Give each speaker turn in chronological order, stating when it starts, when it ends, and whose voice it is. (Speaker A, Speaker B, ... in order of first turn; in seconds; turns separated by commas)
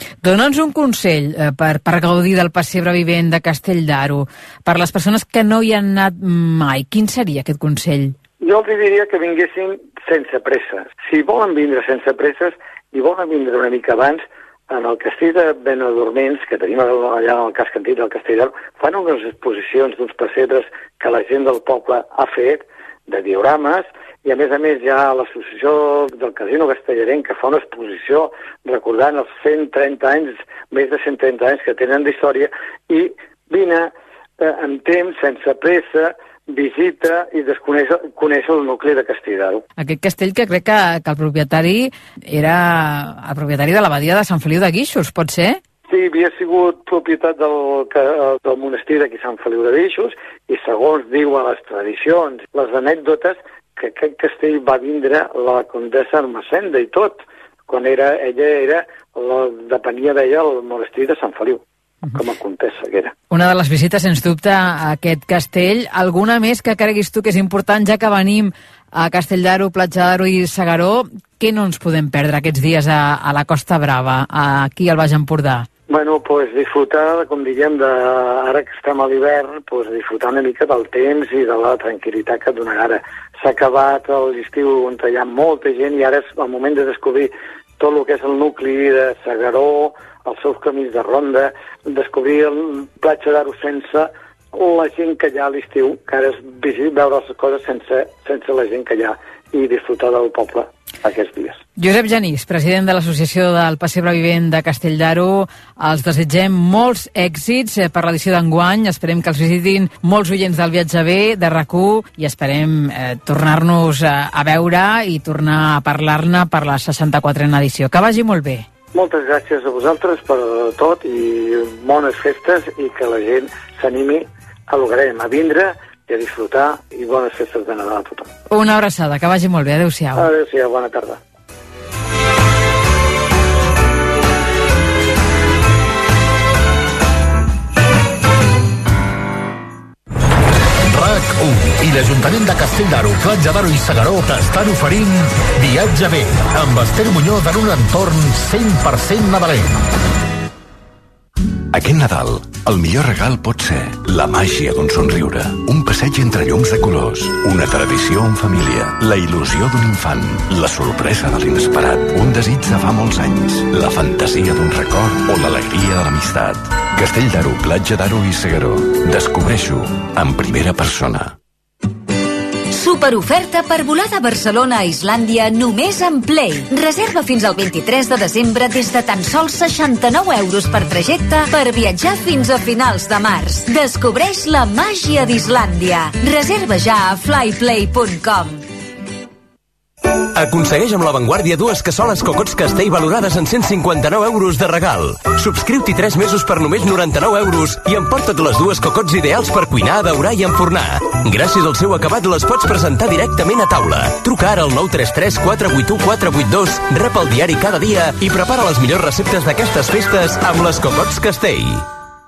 Speaker A: 0.2-8.2, Speaker B: 8.4-39.6, Speaker A: 39.8-45.6, Speaker B: 45.9-63.1, Speaker A: 63.3-75.7, Speaker B: 75.9-101.6, Speaker A: 101.8-118.7, Speaker B: 118.9-128.3, Speaker A: 128.5-130.2, Speaker B: 130.2-131.2, Speaker C: 140.8-149.8, Speaker D: 151.7-171.3, Speaker E: 172.7-188.6, Speaker F: 190.3-211.8